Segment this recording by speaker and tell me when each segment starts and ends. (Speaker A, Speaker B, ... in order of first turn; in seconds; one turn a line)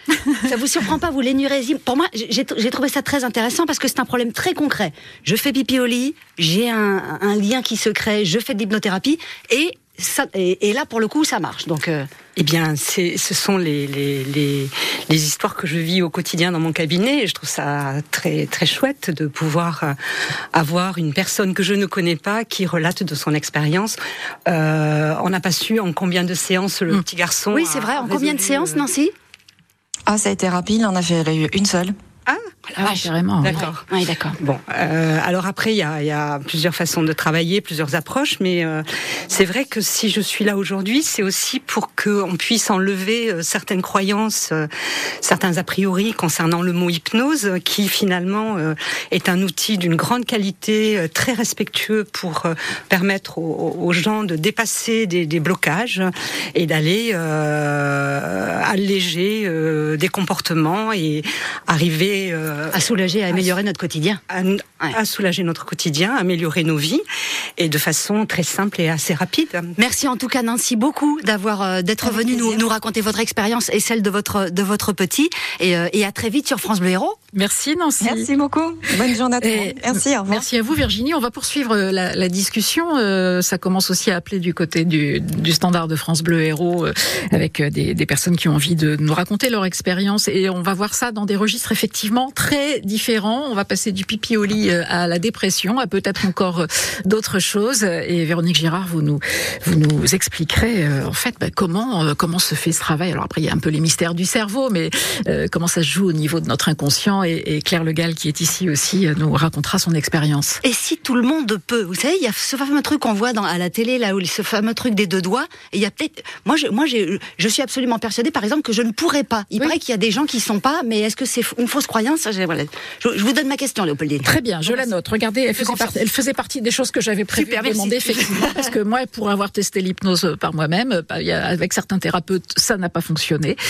Speaker A: 0.4-12.1
Speaker B: 12.3-19.9
Speaker B: 20.5-28.8
Speaker A: 27.5-29.1
Speaker C: 30.1-31.9
Speaker B: 32.3-33.8
Speaker D: 32.8-33.6
Speaker A: 33.5-34.4
Speaker B: 34.4-44.7
Speaker B: 45.2-63.5
Speaker A: 62.7-64.2
Speaker B: 64.3-67.0
Speaker B: 67.6-69.7
Speaker A: 69.8-77.2
Speaker C: 72.0-72.6
Speaker D: 77.3-78.3
Speaker C: 78.0-80.5
Speaker D: 79.4-110.6
Speaker A: 110.6-124.9
Speaker D: 124.2-133.6
Speaker A: 125.5-126.0
Speaker A: 127.3-128.7